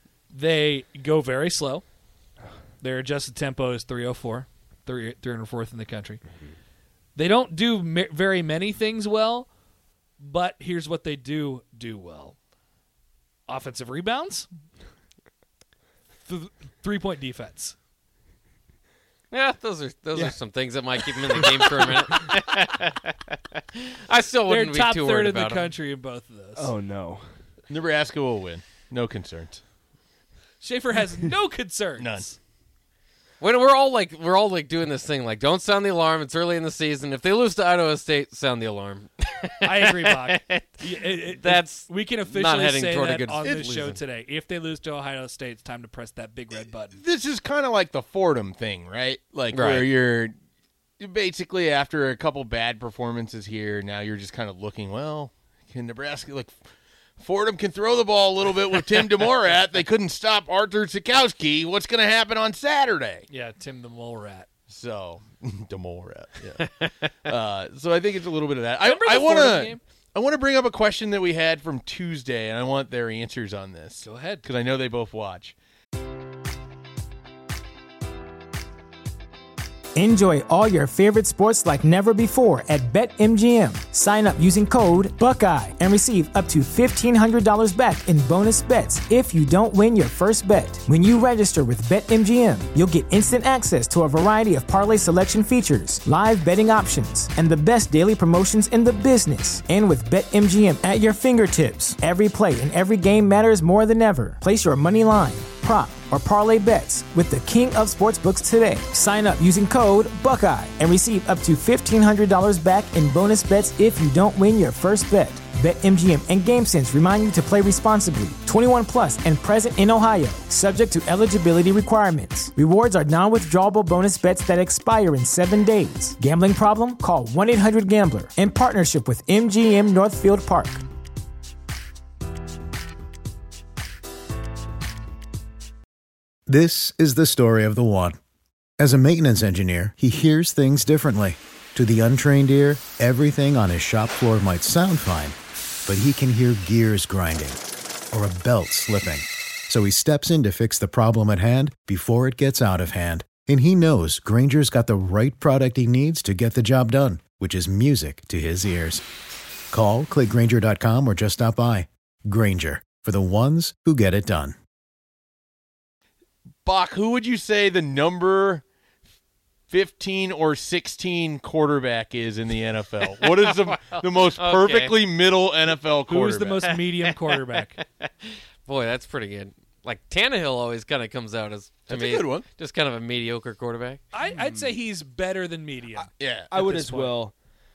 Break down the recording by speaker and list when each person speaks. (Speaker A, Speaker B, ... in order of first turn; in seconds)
Speaker A: 0.3-1.8, 2.8-6.2, 7.2-9.5, 10.2-12.3, 13.5-14.5, 16.2-17.8, 24.4-26.7, 30.6-32.4, 39.6-47.0, 63.3-64.5, 68.8-69.8, 74.0-74.4, 176.1-177.8, 184.1-187.2
Speaker B: 19.3-23.0, 24.1-25.7, 33.4-44.0, 49.5-49.9, 173.0-175.0, 176.8-184.0
Speaker C: 21.4-22.2, 26.6-27.2, 184.3-184.7, 186.5-187.3
Speaker D: 27.7-29.6, 32.0-32.3, 46.9-50.3, 51.0-56.6, 57.2-63.3, 64.7-66.7, 67.2-75.5, 166.6-168.6, 169.7-176.7, 181.9-182.4, 186.2-186.5
Speaker E: 79.9-130.8
Speaker F: 136.5-138.2, 138.8-147.6, 148.1-159.0, 159.7-164.6